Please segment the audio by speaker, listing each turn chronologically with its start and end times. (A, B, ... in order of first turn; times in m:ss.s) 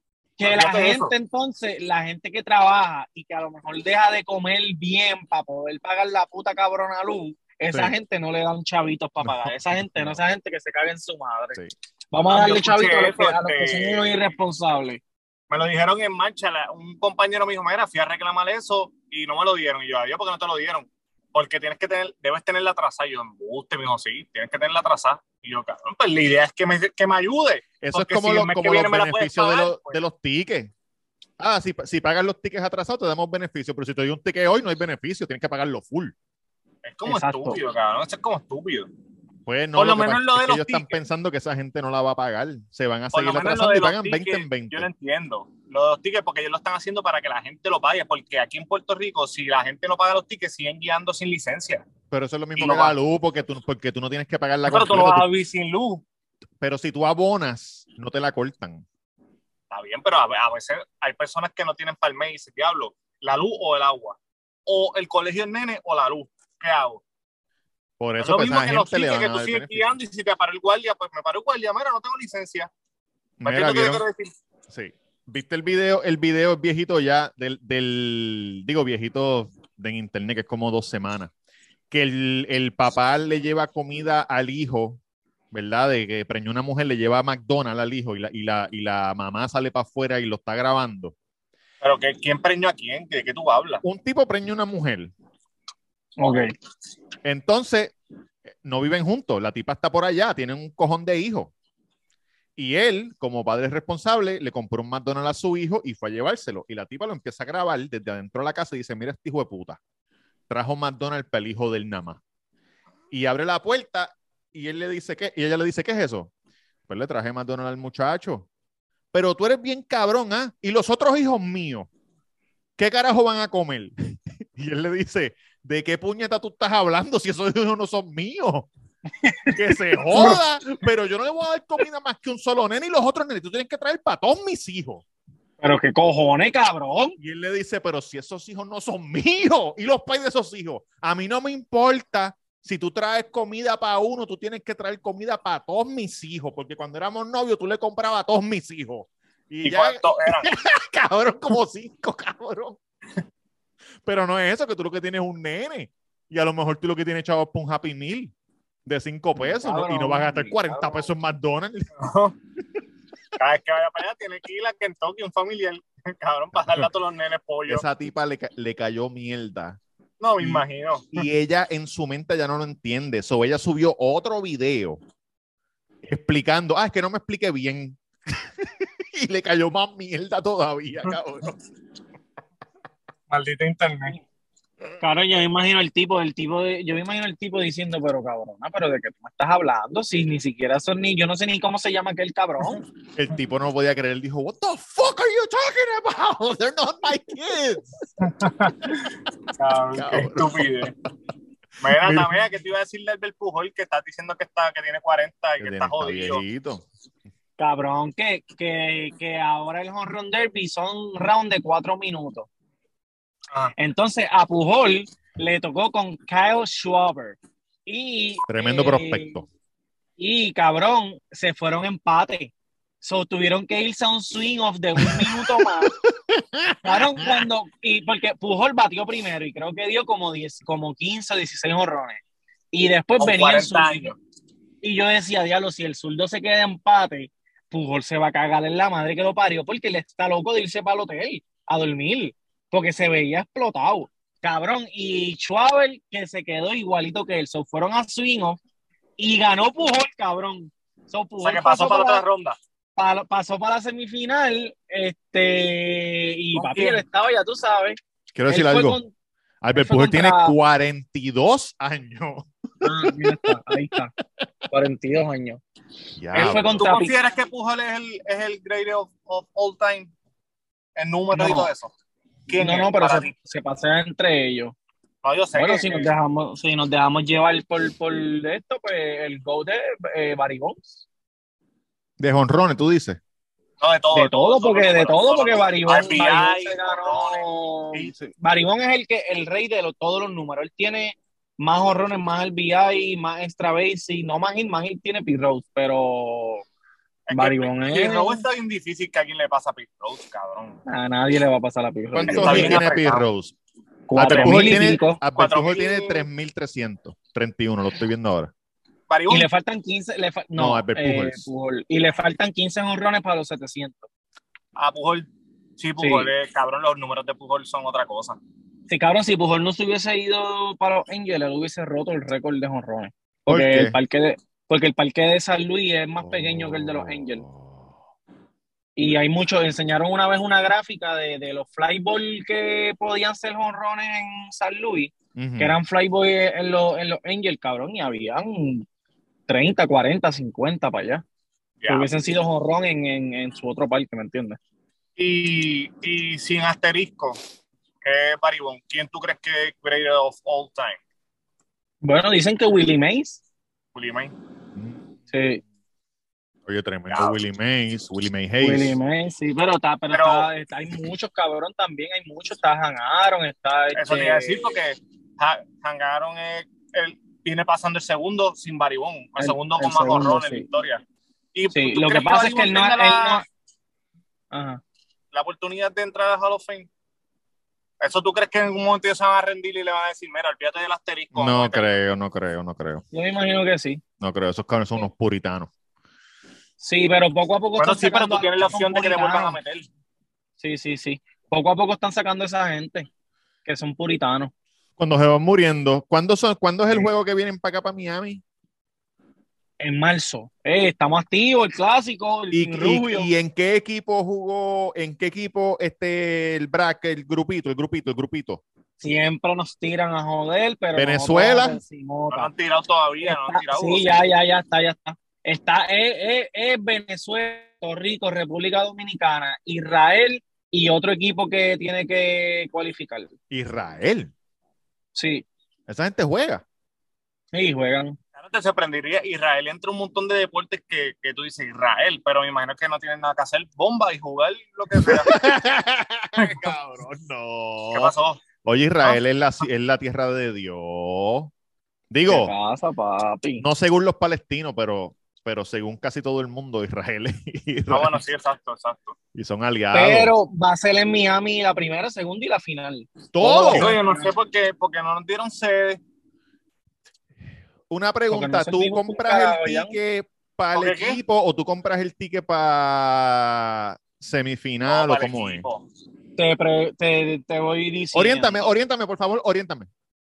0:00.4-0:11.6 A
0:00.4-0:01.1 B
0:09.2-0:10.2 C
0:12.1-0:15.0 A
0:12.3-0:14.1 B
0:15.5-0:30.0 B
0:27.8-0:30.7 C
0:31.4-0:36.1 C
0:36.8-0:38.9 B
0:37.1-0:37.6 A
0:39.5-0:44.9 C
0:39.8-0:41.0 B
0:43.1-0:51.8 B
0:52.1-0:55.3 C
0:52.6-0:52.9 B
0:54.7-0:56.0 B
0:56.6-0:58.8 C
0:59.7-1:07.0 B
1:08.0-1:10.0 C
1:08.2-1:12.7 B
1:13.4-1:14.0 C
1:13.4-1:14.3 B
1:14.7-1:21.3 C
1:21.9-1:25.0 C
1:25.5-1:31.1 C
1:31.8-1:33.8 B
1:33.8-1:35.1 C
1:36.2-1:36.5 A
1:37.2-1:38.0 C
1:38.6-1:41.5 C
1:42.6-1:49.8 C
1:50.5-1:52.2 C
1:53.1-1:56.3 C
1:56.9-1:58.5 C
1:59.1-2:01.9 C
2:02.8-2:08.7 C
2:09.3-2:09.6 A
2:09.5-2:15.0 C
2:15.6-2:17.2 A
2:17.2-2:32.8 C
2:29.6-2:30.5 B
2:34.0-2:38.3 C
2:38.9-2:42.0 C
2:39.4-2:41.1 A
2:42.0-2:42.4 B
2:43.4-2:47.8 B
2:47.7-2:49.8 C
2:50.2-2:51.3 B
2:50.4-2:55.0 C
2:56.0-3:01.6 C
3:03.3-3:04.2 B
3:05.0-3:12.8 A
3:13.2-3:18.0 C
3:18.2-3:21.0 B
3:19.9-3:20.7 C
3:21.8-3:26.4 B
3:21.9-3:22.3 C
3:25.6-3:26.8 C
3:27.6-3:32.5 A
3:33.8-3:39.4 A
3:38.5-3:39.4 C
3:40.2-3:45.9 A
3:45.0-3:45.7 C
3:46.3-3:47.4 C
3:46.8-3:54.2 A
3:53.2-3:54.2 B
3:54.8-4:08.6 A
4:09.2-4:12.2 A
4:11.4-4:12.6 B
4:13.0-4:19.1 A
4:16.5-4:17.0 B
4:18.3-4:19.0 C
4:19.6-4:22.5 C
4:19.7-4:20.6 A
4:22.8-4:24.1 A
4:23.0-4:23.6 C
4:24.7-4:25.6 A
4:26.2-4:26.8 C
4:26.3-4:27.1 A
4:26.8-4:30.1 B
4:31.0-4:31.9 B
4:31.3-4:31.7 A
4:32.5-4:33.3 B
4:32.5-4:34.8 A
4:35.2-4:36.1 B
4:35.6-4:41.0 A
4:42.2-4:43.2 C
4:43.8-4:48.1 B
4:44.1-4:56.6 A
4:57.3-5:00.8 B
4:57.3-4:58.4 A
5:00.9-5:02.8 A
5:02.1-5:03.5 C
5:02.3-5:03.3 B
5:04.1-5:05.2 A
5:04.1-5:08.5 C
5:04.2-5:06.3 B
5:09.1-5:09.5 B
5:09.3-5:14.1 A
5:10.6-5:11.5 C
5:14.8-5:15.3 B
5:15.8-5:18.4 B
5:16.0-5:16.3 A
5:18.9-5:27.4 A
5:23.5-5:24.0 C
5:26.2-5:27.9 C
5:29.0-5:38.9 A
5:35.4-5:35.8 C
5:39.5-5:41.2 A
5:41.8-5:42.1 B
5:41.9-5:44.6 A
5:45.2-5:47.4 B
5:48.0-5:51.0 B
5:52.0-5:53.4 A
5:54.0-5:54.3 B
5:54.8-5:55.1 C
5:55.3-5:55.6 A
5:56.7-5:59.0 C
5:57.1-5:57.4 B
5:58.6-6:04.6 A
6:00.1-6:00.5 B
6:04.0-6:11.0 B
6:09.4-6:10.7 A
6:11.5-6:13.4 B
6:11.7-6:13.4 A
6:14.5-6:14.8 A
6:15.3-6:16.9 B
6:18.0-6:21.9 B
6:21.3-6:23.0 C
6:23.1-6:24.0 A
6:24.2-6:25.7 C
6:26.8-6:29.6 A
6:27.8-6:29.9 B
6:30.6-6:33.1 A
6:33.6-6:34.5 A
6:35.0-6:38.4 C
6:39.8-6:43.3 A
6:42.5-6:48.6 C
6:49.0-6:52.5 A
6:51.0-6:51.8 C
6:52.3-6:54.1 B
6:53.2-7:03.3 A
7:03.5-7:04.3 C
7:05.2-7:05.5 A
7:05.9-7:06.6 C
7:07.5-7:08.2 A
7:08.4-7:15.4 B
7:15.0-7:18.1 C
7:16.4-7:16.7 B
7:17.9-7:18.4 B
7:18.6-7:21.5 C
7:22.1-7:22.5 C
7:22.3-7:23.7 A
7:23.6-7:28.2 C
7:27.9-7:29.2 B
7:29.3-7:30.3 C
7:29.9-7:34.3 A
7:33.3-7:33.9 C
7:33.7-7:36.0 B
7:37.9-7:45.6 C
7:38.3-7:40.0 A
7:40.7-7:41.2 B
7:44.9-7:45.8 B
7:46.4-7:48.6 A
7:48.1-7:49.9 C